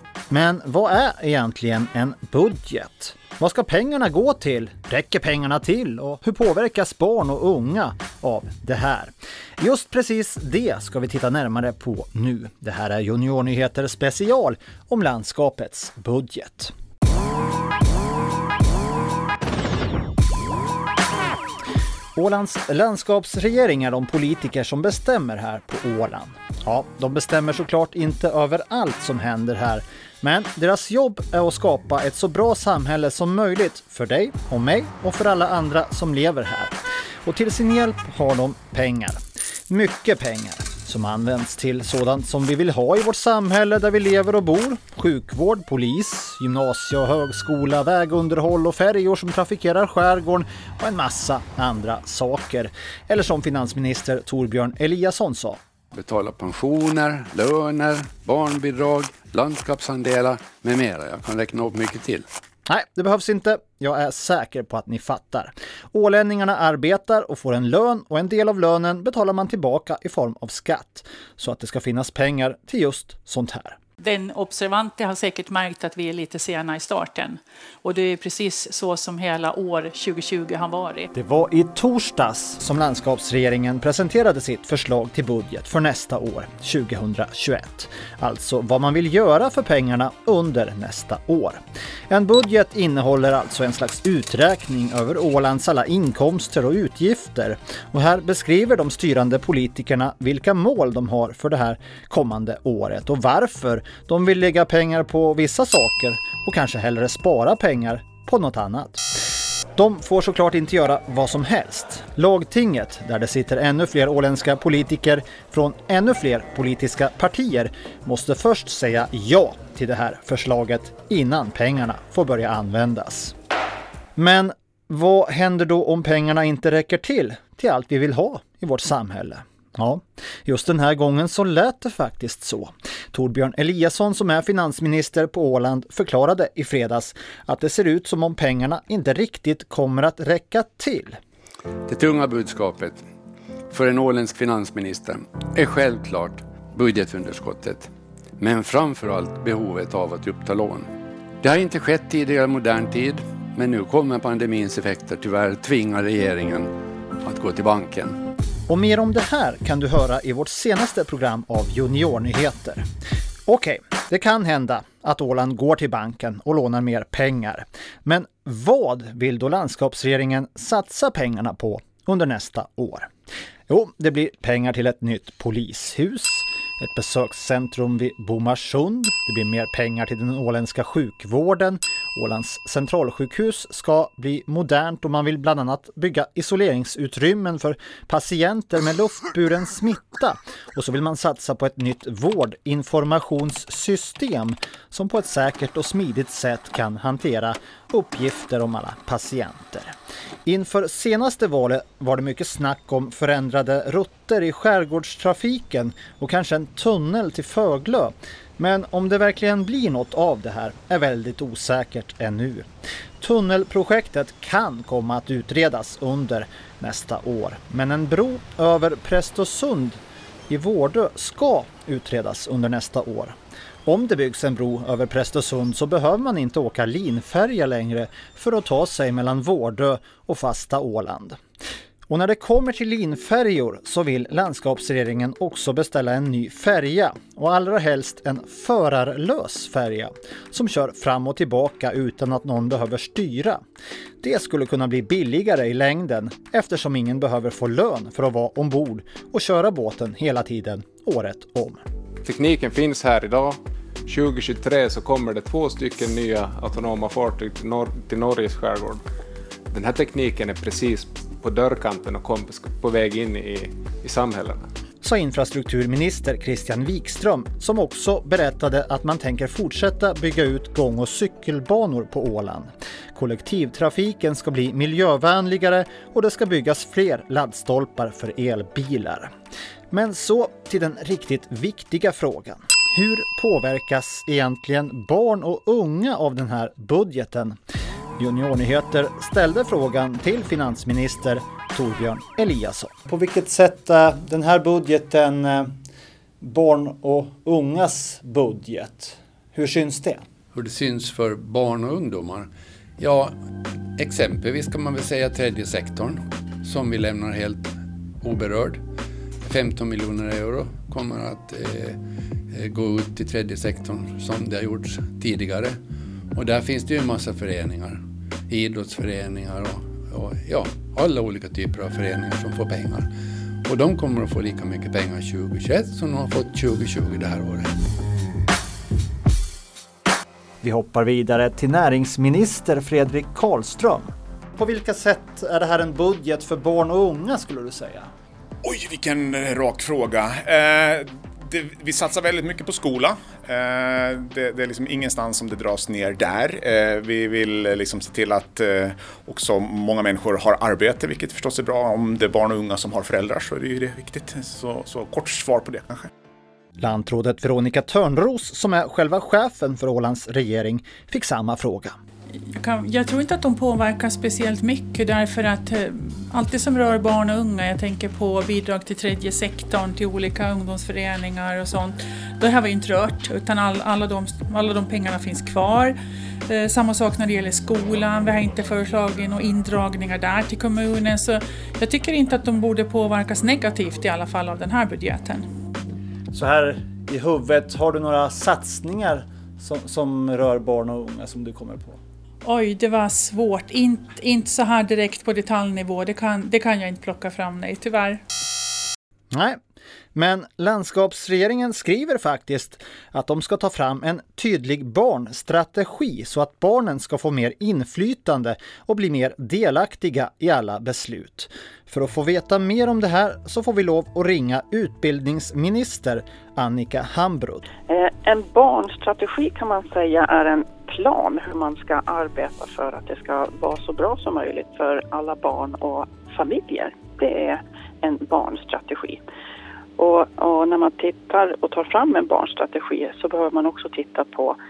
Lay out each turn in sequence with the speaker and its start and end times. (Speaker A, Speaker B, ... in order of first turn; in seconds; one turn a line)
Speaker A: 0.3-16.7
Speaker A: 22.1-55.6
Speaker B: 55.9-62.2
Speaker A: 62.7-73.8
Speaker C: 74.0-81.1
Speaker A: 81.1-109.0
Speaker A: 109.8-123.3
Speaker A: 124.2-141.2
Speaker B: 141.9-143.0
Speaker B: 143.7-150.9
Speaker B: 151.4-156.7
Speaker B: 157.2-158.2
Speaker A: 158.7-162.8
Speaker A: 163.5-173.1
Speaker A: 173.7-199.9
Speaker A: 200.4-212.7
Speaker A: 213.2-231.4
Speaker A: 232.1-243.6
Speaker A: 244.2-251.8
Speaker D: 252.3-253.5
Speaker D: 254.1-258.9
Speaker D: 259.7-264.6
Speaker A: 265.0-279.3
Speaker A: 279.9-287.6
Speaker A: 288.2-295.7
Speaker A: 296.4-300.2
Speaker B: 300.5-302.5
Speaker B: 303.0-303.3
Speaker B: 304.0-308.8
Speaker B: 309.4-312.0
Speaker B: 312.5-315.8
Speaker B: 316.3-323.1
Speaker B: 323.6-327.7
Speaker A: 330.6-338.1
Speaker E: 338.6-356.1
Speaker A: 356.8-361.9
Speaker C: 362.6-375.9
Speaker C: 376.5-385.4
Speaker A: 386.3-392.0
Speaker C: 392.4-398.2
Speaker A: 399.3-399.6
Speaker A: 400.1-417.6
Speaker F: 417.9-429.2
Speaker F: 430.0-434.6